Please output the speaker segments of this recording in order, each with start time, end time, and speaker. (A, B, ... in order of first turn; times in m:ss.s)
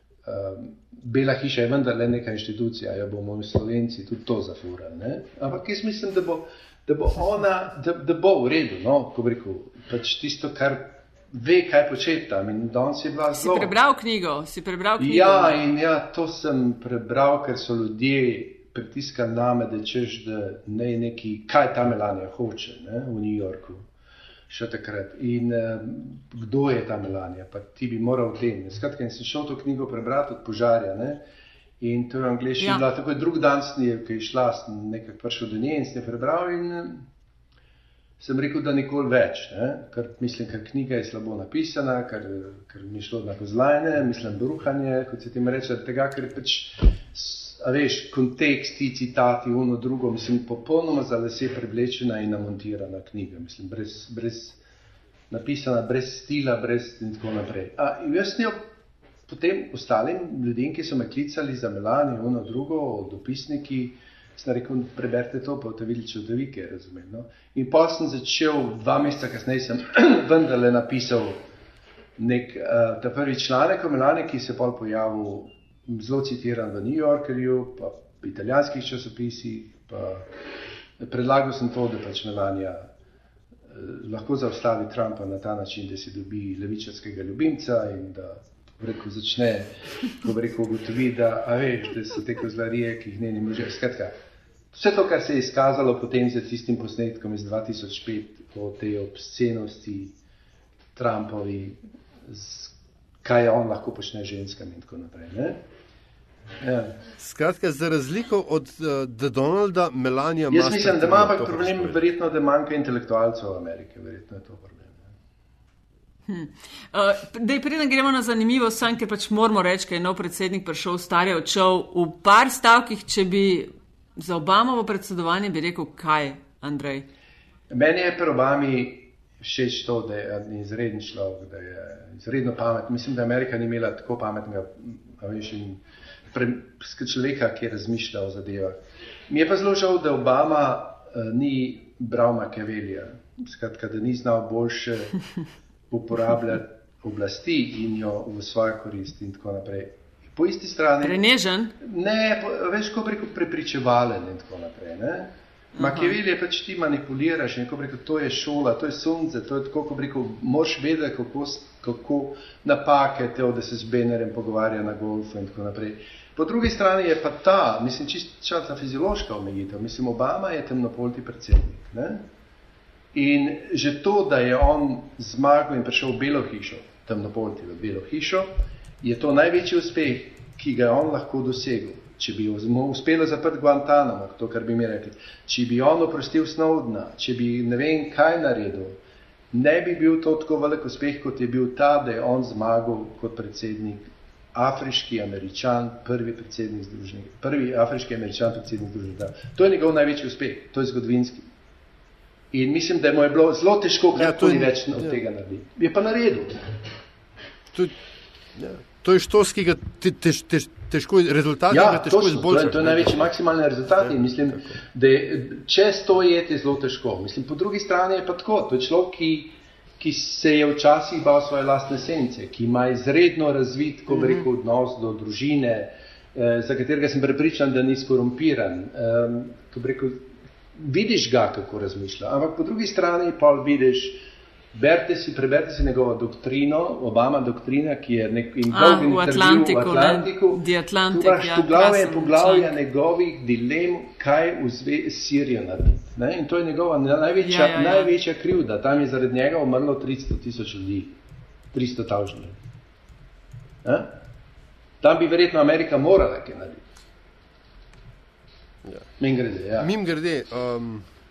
0:00.2-0:13.7 A
0:13.3-0:15.6 B
0:15.0-0:23.9 A
0:24.5-0:31.2 A
0:31.8-0:37.0 A
0:32.6-0:32.8 B
0:38.2-0:54.6 A
0:55.3-0:58.7 A
0:59.3-1:11.4 A
1:12.2-1:20.3 A
1:21.0-1:22.9 A
1:23.7-1:34.1 A
1:34.7-1:40.2 A
1:41.0-1:45.6 A
1:46.6-1:47.0 A
1:47.2-1:52.1 C
1:50.5-1:55.1 A
1:56.3-2:07.1 B
2:07.7-2:18.8 A
2:19.3-2:25.2 A
2:25.9-2:31.2 A
2:31.0-2:31.7 B
2:31.8-2:52.3 A
2:35.8-2:36.2 B
2:53.1-3:09.0 A
3:09.5-3:21.5 A
3:22.5-3:26.6 A
3:24.1-3:25.2 C
3:28.6-3:33.3 C
3:31.7-4:11.2 A
3:44.1-3:44.4 B
3:58.7-4:02.7 B
4:07.4-4:08.1 B
4:11.7-4:12.6 A
4:13.8-4:14.2 A
4:15.0-4:16.8 A
4:19.2-4:19.9 A
4:19.8-4:21.1 C